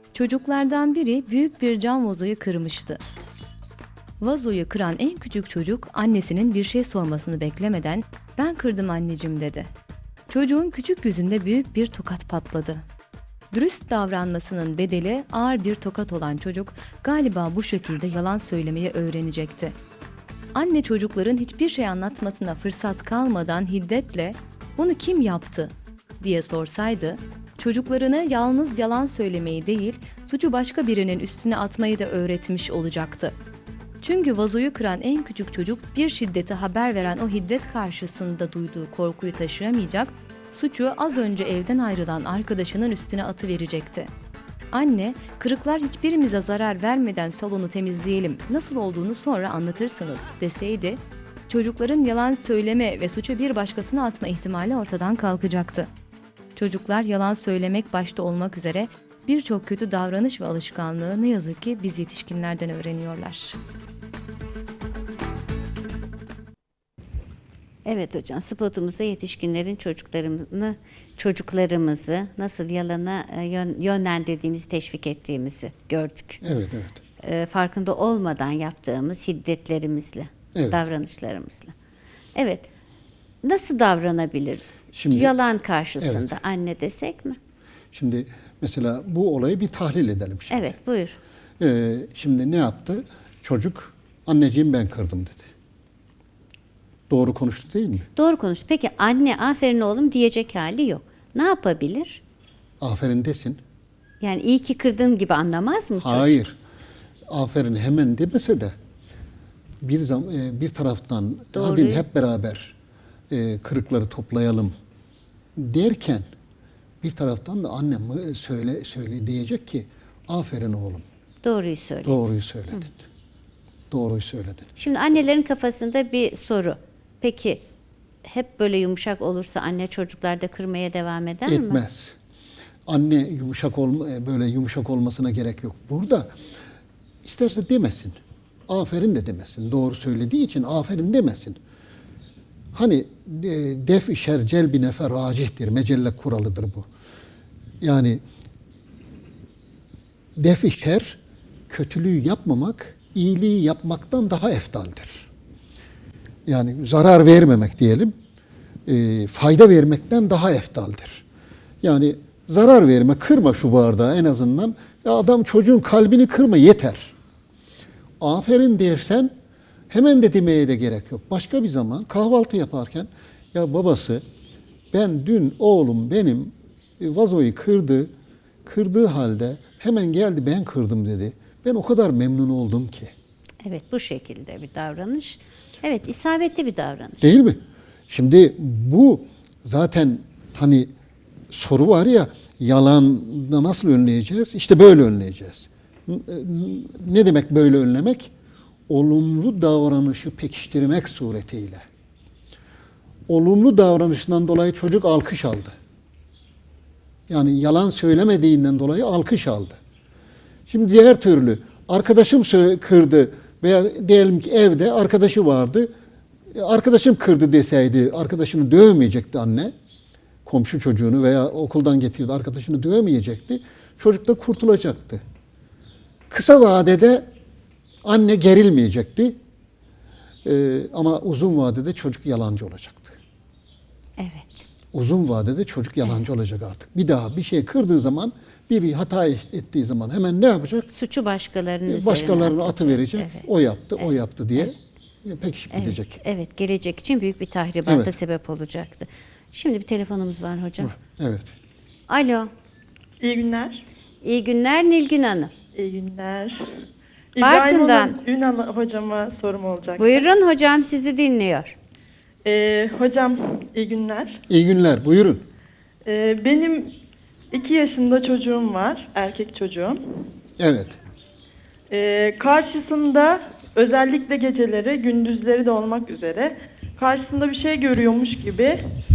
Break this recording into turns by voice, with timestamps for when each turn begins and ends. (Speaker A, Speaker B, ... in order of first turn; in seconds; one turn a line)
Speaker A: 0.1-3.0
Speaker A: 4.2-9.7
Speaker A: 10.3-12.8
Speaker A: 13.5-19.7
Speaker A: 20.5-33.4
Speaker A: 34.0-44.1
Speaker A: 44.7-55.9
Speaker A: 56.6-63.6
Speaker B: 67.8-76.4
Speaker C: 76.4-77.0
Speaker B: 77.2-81.7
Speaker C: 80.5-80.8
Speaker B: 82.3-82.7
Speaker B: 83.4-87.4
Speaker C: 84.9-85.3
Speaker C: 86.0-86.4
Speaker C: 87.9-90.7
Speaker B: 90.5-91.2
Speaker C: 91.6-95.5
Speaker C: 97.1-98.1
Speaker B: 98.2-102.2
Speaker C: 102.8-103.6
Speaker B: 104.2-106.3
Speaker C: 106.0-106.6
Speaker C: 107.3-108.8
Speaker C: 109.8-112.8
Speaker B: 111.5-112.0
Speaker C: 113.3-114.7
Speaker C: 115.6-116.3
Speaker C: 117.0-121.0
Speaker B: 121.4-122.2
Speaker C: 122.0-123.0
Speaker C: 123.9-124.7
Speaker B: 124.8-127.6
Speaker B: 128.2-131.8
Speaker C: 131.5-132.2
Speaker C: 132.9-136.3
Speaker C: 137.2-141.6
Speaker C: 142.7-146.9
Speaker C: 147.8-148.2
Speaker C: 150.4-155.3
Speaker C: 156.5-158.1
Speaker C: 158.9-161.2
Speaker C: 161.8-167.1
Speaker C: 168.2-169.3
Speaker C: 169.9-174.2
Speaker C: 174.9-178.1
Speaker C: 178.7-183.1
Speaker B: 183.6-187.3
Speaker C: 187.2-190.9
Speaker C: 191.5-198.3
Speaker C: 198.9-201.8
Speaker C: 203.3-205.8
Speaker C: 207.3-209.8
Speaker C: 210.7-215.9
Speaker C: 216.5-219.7
Speaker C: 220.4-225.2
Speaker C: 226.3-227.3
Speaker C: 228.0-229.4
Speaker C: 230.4-233.2
Speaker B: 234.2-234.7
Speaker C: 234.9-240.9
Speaker B: 240.9-243.4
Speaker C: 241.9-246.2
Speaker B: 245.7-250.9
Speaker C: 247.9-248.1
Speaker C: 250.8-251.6
Speaker B: 252.1-252.5
Speaker D: 253.2-253.8
Speaker B: 254.2-255.5
Speaker D: 255.8-256.6
Speaker D: 257.4-260.3
Speaker B: 257.4-258.2
Speaker B: 260.0-261.8
Speaker D: 262.4-264.4
Speaker C: 264.5-265.4
Speaker D: 266.1-266.9
Speaker D: 267.5-270.2
Speaker C: 270.6-271.0
Speaker D: 271.9-278.8